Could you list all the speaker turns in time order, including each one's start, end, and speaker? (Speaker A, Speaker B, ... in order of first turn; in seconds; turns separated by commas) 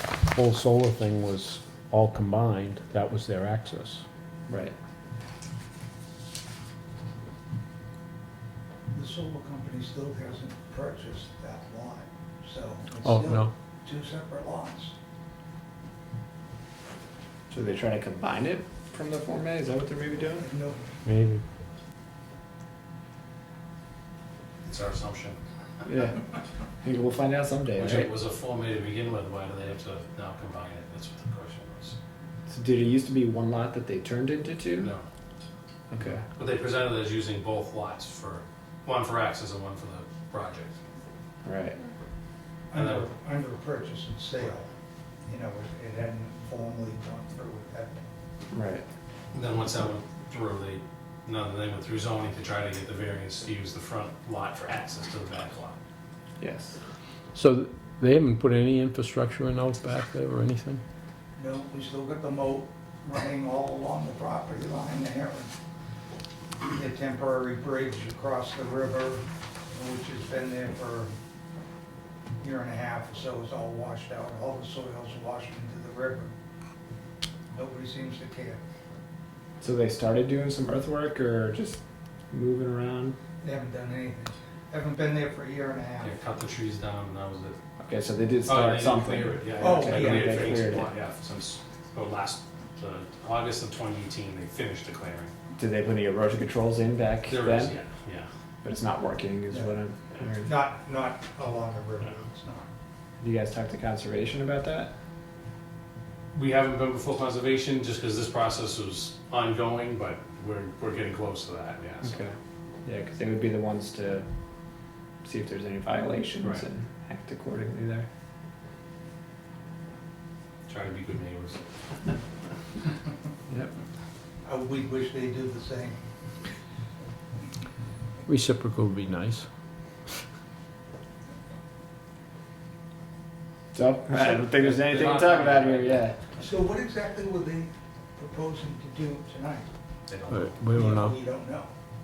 Speaker A: 0.2-4.0, Speaker B: 4.5-4.7, Speaker C: 8.9-14.9, Speaker A: 13.0-13.5, Speaker B: 17.5-20.5, Speaker C: 20.4-20.8, Speaker A: 21.0-21.4, Speaker D: 24.6-25.4, Speaker B: 25.9-26.2, Speaker B: 26.8-28.1, Speaker D: 27.8-32.0, Speaker B: 32.5-34.9, Speaker B: 35.9-36.2, Speaker D: 36.3-40.8, Speaker B: 41.4-41.8, Speaker C: 42.7-44.7, Speaker D: 42.7-43.1, Speaker C: 45.2-48.1, Speaker B: 48.5-48.8, Speaker D: 49.3-55.8, Speaker B: 56.4-56.8, Speaker A: 57.3-60.8, Speaker C: 61.4-65.5, Speaker C: 66.7-71.1, Speaker C: 72.4-76.3, Speaker C: 77.5-78.6, Speaker B: 79.6-81.8, Speaker B: 82.3-83.2, Speaker C: 83.4-86.2, Speaker D: 86.0-87.6, Speaker B: 87.8-90.9, Speaker D: 88.5-95.3, Speaker C: 89.6-90.7, Speaker B: 95.6-97.8, Speaker D: 97.3-98.3, Speaker B: 98.6-100.6, Speaker C: 99.5-99.7, Speaker C: 100.4-102.6, Speaker B: 103.2-104.9, Speaker D: 106.3-112.2, Speaker B: 112.0-112.3, Speaker B: 112.8-114.2, Speaker B: 115.2-118.1, Speaker D: 120.7-122.1, Speaker C: 124.4-126.0, Speaker A: 128.3-129.5, Speaker B: 133.7-136.2, Speaker D: 134.2-136.2, Speaker C: 136.4-139.7, Speaker D: 140.1-140.5, Speaker A: 140.3-141.2, Speaker C: 140.6-141.7